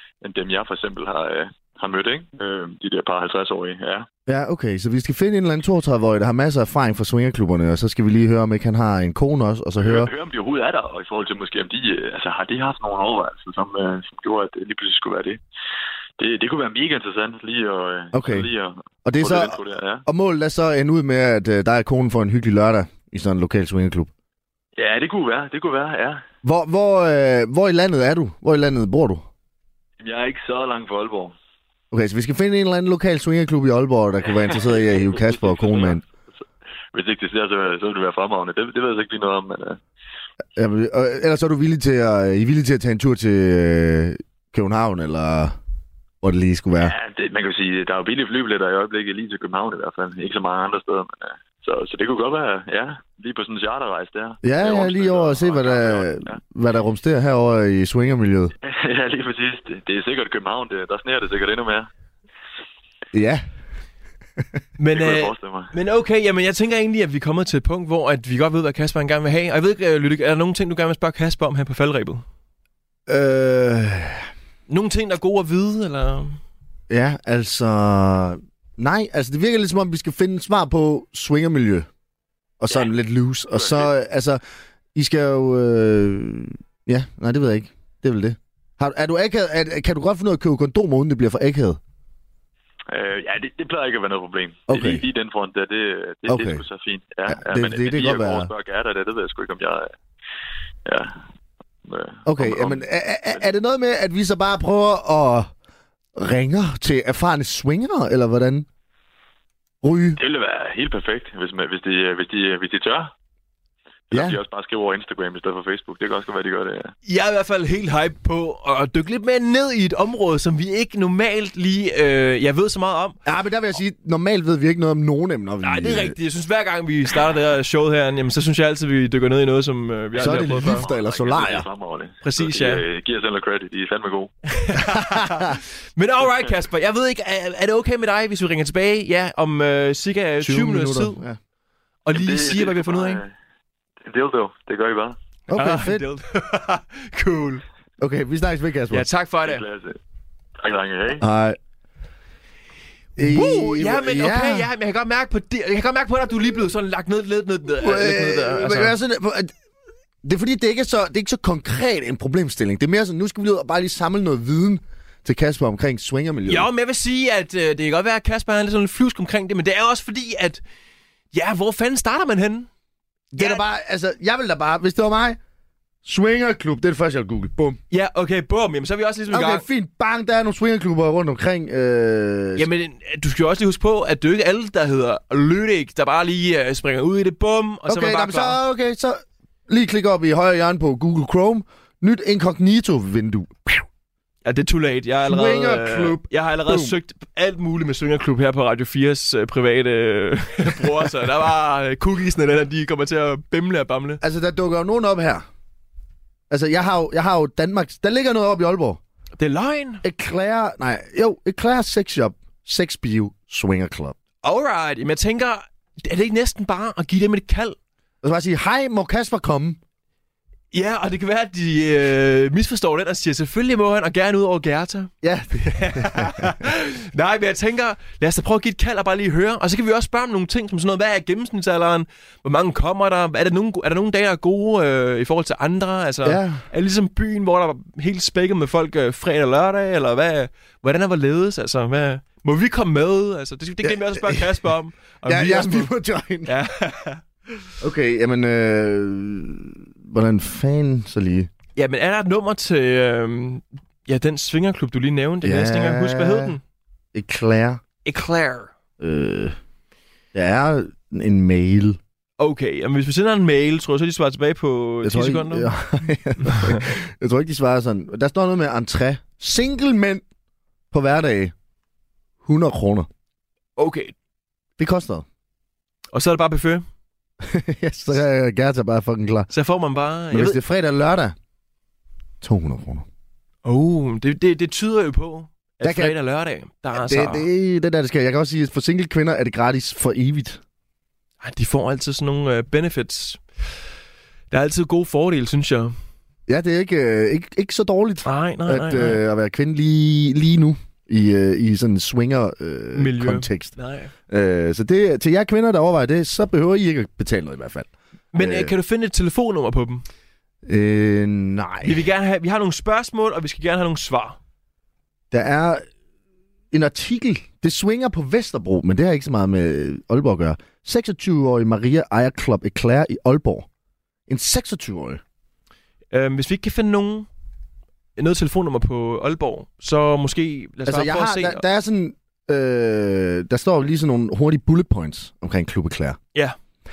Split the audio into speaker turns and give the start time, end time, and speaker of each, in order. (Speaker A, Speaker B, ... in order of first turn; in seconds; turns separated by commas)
Speaker A: 0.2-4.1, Speaker B: 4.3-10.1, Speaker A: 9.8-15.4, Speaker A: 16.2-20.0, Speaker B: 18.1-18.5, Speaker B: 19.1-24.1, Speaker A: 24.8-26.2, Speaker B: 26.4-29.3, Speaker A: 30.0-31.4, Speaker B: 31.9-36.0, Speaker A: 34.4-36.4, Speaker A: 36.9-39.8, Speaker B: 40.6-45.6, Speaker B: 46.2-46.9, Speaker A: 46.8-56.4, Speaker B: 54.4-58.5, Speaker A: 58.6-61.9, Speaker B: 63.1-63.5, Speaker C: 64.8-72.2, Speaker A: 64.9-65.7, Speaker B: 73.1-74.3, Speaker C: 74.7-76.4, Speaker B: 76.9-81.9, Speaker B: 82.6-84.4, Speaker A: 83.5-83.9, Speaker B: 85.0-91.8, Speaker A: 92.9-99.9, Speaker B: 94.7-95.0, Speaker B: 96.3-96.6, Speaker B: 97.3-98.5, Speaker A: 100.9-101.1, Speaker A: 101.9-103.5, Speaker B: 102.3-105.5, Speaker B: 106.2-108.7, Speaker B: 109.8-110.2, Speaker A: 110.2-113.1, Speaker A: 114.1-116.9, Speaker B: 114.1-114.4, Speaker C: 117.1-123.2, Speaker B: 123.2-126.2, Speaker C: 125.6-130.9, Speaker A: 130.1-134.3, Speaker B: 130.2-131.7, Speaker C: 132.2-132.8, Speaker C: 134.5-141.2, Speaker B: 134.9-135.6, Speaker B: 140.4-141.4, Speaker C: 142.1-143.2, Speaker A: 142.1-143.3, Speaker A: 144.0-145.2, Speaker B: 145.5-146.1, Speaker C: 145.5-147.6, Speaker B: 148.0-149.1, Speaker C: 148.9-149.6, Speaker A: 149.4-150.0, Speaker A: 150.6-151.2, Speaker B: 151.2-151.6, Speaker B: 153.2-154.7, Speaker C: 153.2-158.9, Speaker B: 157.8-159.5, Speaker B: 160.2-166.7, Speaker C: 166.5-170.6, Speaker C: 171.3-172.7, Speaker B: 173.3-175.4, Speaker C: 173.4-173.6, Speaker B: 176.0-177.8, Speaker C: 177.9-179.7, Speaker B: 179.3-182.7, Speaker C: 182.6-188.6, Speaker B: 187.9-193.9, Speaker C: 194.4-204.2, Speaker B: 195.2-197.0, Speaker B: 204.2-205.4, Speaker B: 206.5-209.0, Speaker C: 209.4-210.0, Speaker B: 210.0-214.2, Speaker C: 214.4-217.8, Speaker B: 218.2-219.8, Speaker C: 220.7-245.9, Speaker B: 225.2-226.5, Speaker B: 236.2-236.6, Speaker B: 243.8-244.6, Speaker B: 245.2-246.5, Speaker C: 246.5-247.2, Speaker B: 247.8-251.5, Speaker C: 251.8-256.6, Speaker B: 255.4-256.6, Speaker B: 257.1-257.8, Speaker C: 258.1-258.7, Speaker B: 259.0-259.6, Speaker B: 260.3-262.0, Speaker C: 262.4-265.7, Speaker B: 265.0-270.2, Speaker C: 266.4-266.8, Speaker B: 270.9-271.5, Speaker B: 272.4-273.1, Speaker C: 273.8-274.1, Speaker B: 274.8-275.2, Speaker C: 276.1-276.9, Speaker B: 277.4-279.5, Speaker C: 279.5-280.6, Speaker B: 280.3-281.4, Speaker B: 282.4-283.1, Speaker C: 283.6-287.5, Speaker B: 285.8-286.2, Speaker B: 286.9-290.6, Speaker C: 291.4-293.4, Speaker C: 294.5-295.9, Speaker B: 296.5-303.8, Speaker C: 298.2-299.2, Speaker C: 302.9-304.1, Speaker B: 304.3-308.8, Speaker C: 308.3-310.1, Speaker B: 310.6-312.1, Speaker C: 311.8-314.4, Speaker B: 315.3-315.9, Speaker B: 316.7-323.7, Speaker B: 324.3-325.2, Speaker C: 326.1-327.3, Speaker C: 328.2-331.6, Speaker B: 330.9-336.2